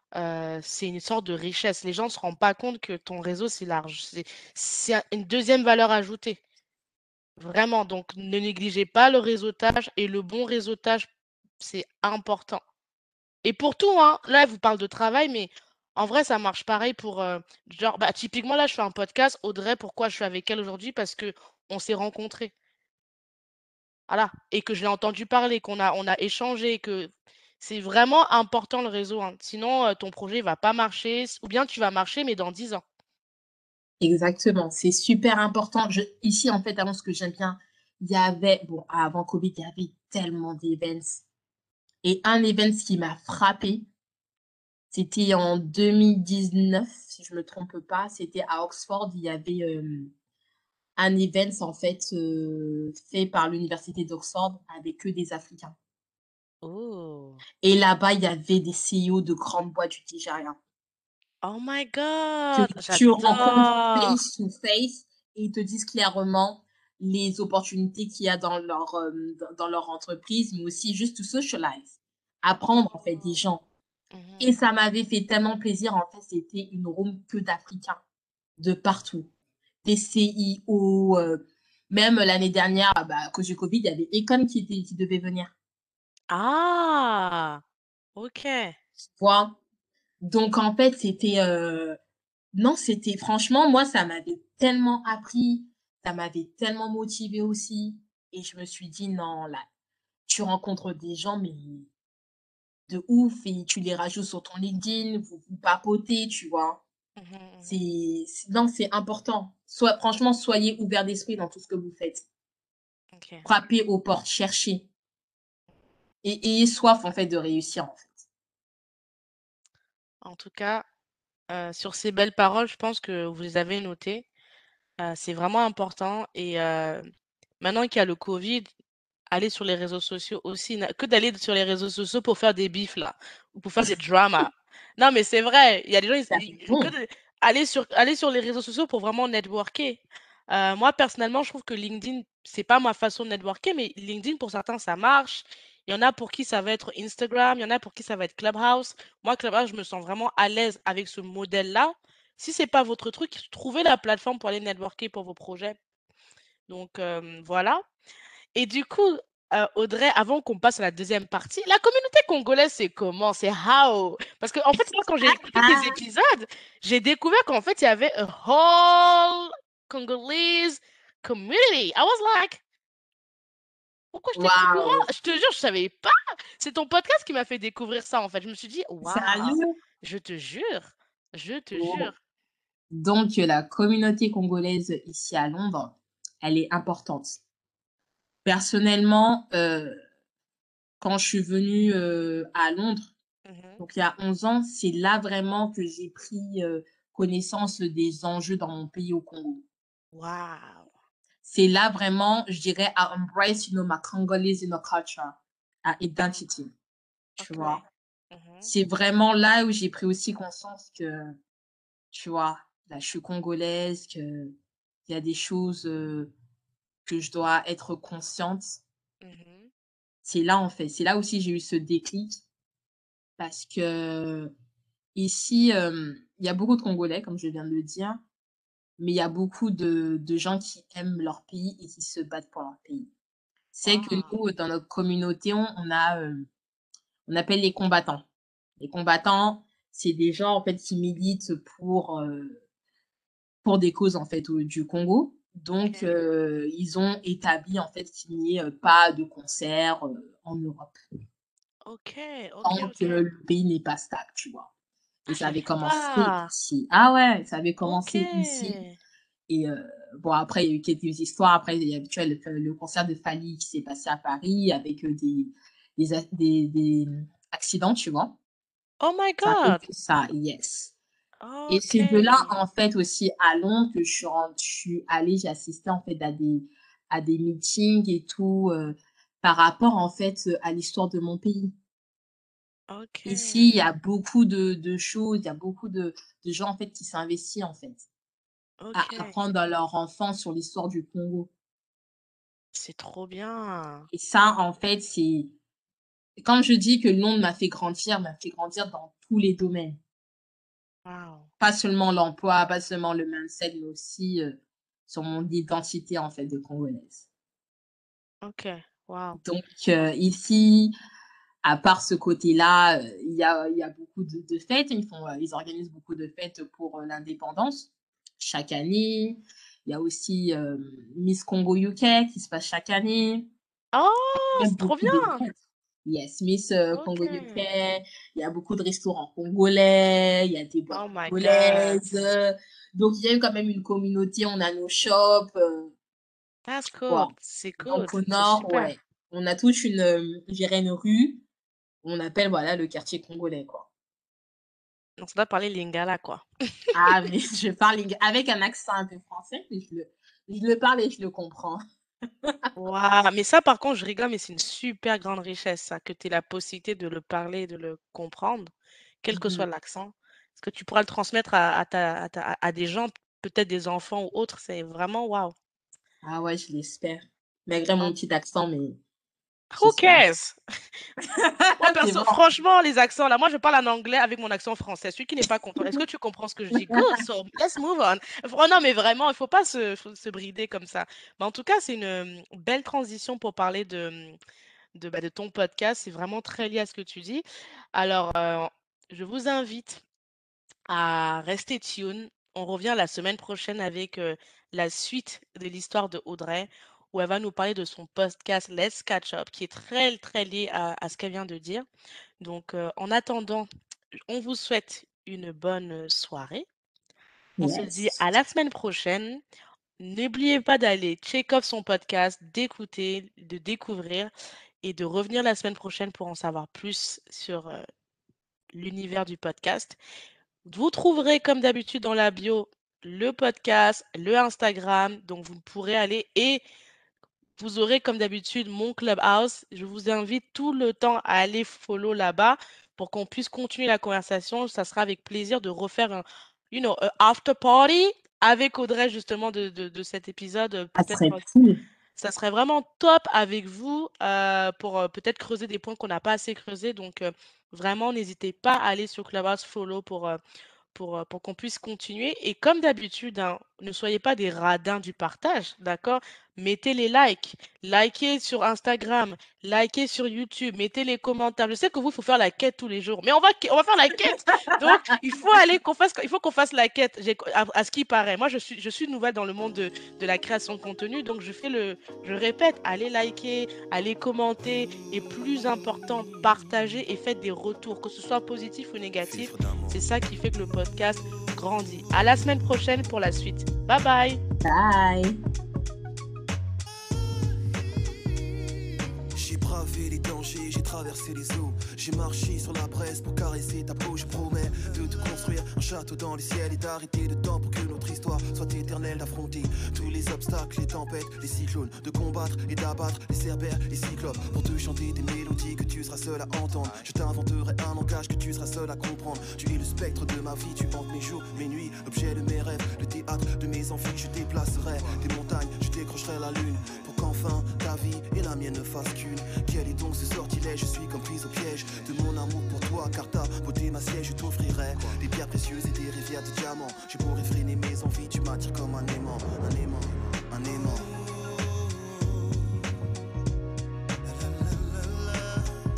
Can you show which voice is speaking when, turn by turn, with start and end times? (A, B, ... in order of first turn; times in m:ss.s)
0:00.2-0:06.4 A
0:07.4-0:11.1 A
0:11.6-0:12.6 A
0:13.4-0:22.5 A
0:24.1-0:32.8 A
0:34.0-0:41.2 B
0:42.0-0:43.9 B
0:44.9-0:50.1 B
0:51.0-0:55.8 B
0:56.6-0:57.4 A
0:57.6-1:00.6 B
1:01.4-1:04.2 A
1:02.5-1:13.6 B
1:14.1-1:14.6 A
1:14.4-1:18.0 B
1:18.6-1:19.3 B
1:19.8-1:25.5 B
1:26.3-1:27.6 A
1:28.2-1:28.8 A
1:29.2-1:29.6 B
1:30.2-1:32.0 B
1:32.5-1:39.6 B
1:40.3-1:41.9 B
1:42.9-1:46.8 B
1:47.2-1:47.8 A
1:47.6-1:52.3 B
1:53.1-1:53.5 A
1:53.4-1:54.9 B
1:56.2-1:58.2 B
2:00.2-2:00.8 A
2:01.5-2:04.3 A
2:05.0-2:07.0 A
2:07.6-2:08.7 A
2:09.3-2:35.8 A
2:16.3-2:16.9 B
2:36.7-2:37.8 A
2:38.6-2:52.6 A
2:45.2-2:46.0 B
2:54.1-3:02.2 A
2:54.4-2:55.0 B
2:59.0-2:59.7 B
3:01.8-3:02.1 B
3:02.9-3:07.4 B
3:08.4-3:10.0 B
3:11.0-3:13.1 B
3:13.5-3:13.8 A
3:13.8-3:19.6 B
3:20.1-3:20.9 A
3:21.4-3:26.7 B
3:27.4-3:28.7 A
3:27.4-3:27.8 B
3:28.6-3:31.4 B
3:32.1-3:34.6 B
3:35.1-3:36.3 B
3:37.0-3:38.8 B
3:39.2-3:39.7 A
3:40.2-3:42.4 B
3:43.4-3:44.5 B
3:45.2-3:48.2 B
3:49.0-3:53.1 B
3:53.7-3:56.5 B
3:53.8-3:54.4 A
3:57.3-3:58.3 B
3:58.8-4:02.6 B
4:03.6-4:11.0 B
4:05.8-4:06.1 A
4:11.9-4:13.2 A
4:12.6-4:14.7 B
4:15.3-4:18.8 B
4:15.3-4:16.5 A
4:17.8-4:19.0 A
4:19.5-4:28.4 B
4:29.0-4:29.8 A
4:29.4-4:30.9 B
4:31.4-4:32.5 A
4:31.7-4:41.7 B
4:42.9-4:43.8 A
4:43.3-4:48.0 B
4:48.8-4:49.3 A
4:48.9-4:51.5 B
4:52.7-4:54.1 A
4:54.1-4:55.5 B
4:56.4-5:00.0 B
5:01.1-5:01.5 A
5:01.6-5:07.2 B
5:08.4-5:09.4 A
5:09.4-5:10.9 B
5:11.6-5:23.5 B
5:23.9-5:25.5 A
5:24.6-5:25.5 B
5:26.0-5:35.9 B
5:26.9-5:27.6 A
5:30.9-5:32.0 A
5:36.7-5:39.0 A
5:37.8-5:41.4 B
5:42.0-5:43.9 B
5:45.2-5:46.4 A
5:47.0-5:51.8 B
5:52.8-5:58.7 A
5:59.2-6:05.5 A
5:59.3-5:59.7 B
6:06.2-6:09.0 B
6:09.7-6:10.6 A
6:09.8-6:10.3 B
6:11.2-6:12.4 B
6:11.8-6:24.4 A
6:16.8-6:17.1 B
6:25.0-6:27.4 A
6:28.0-6:30.0 A
6:30.9-6:41.9 A
6:42.4-6:43.7 A
6:44.3-6:46.7 A
6:47.6-6:48.2 B
6:47.6-6:49.4 A
6:50.0-6:54.3 A
6:54.8-6:57.8 A
6:58.8-7:00.0 A
7:00.6-7:06.6 A
7:07.6-7:21.5 A
7:21.0-7:21.8 B
7:22.2-7:30.4 A
7:30.9-8:04.4 A
7:44.1-7:44.9 B
7:59.4-7:59.9 C
8:04.6-8:05.4 B
8:09.4-8:51.2 C
8:54.5-8:55.2 C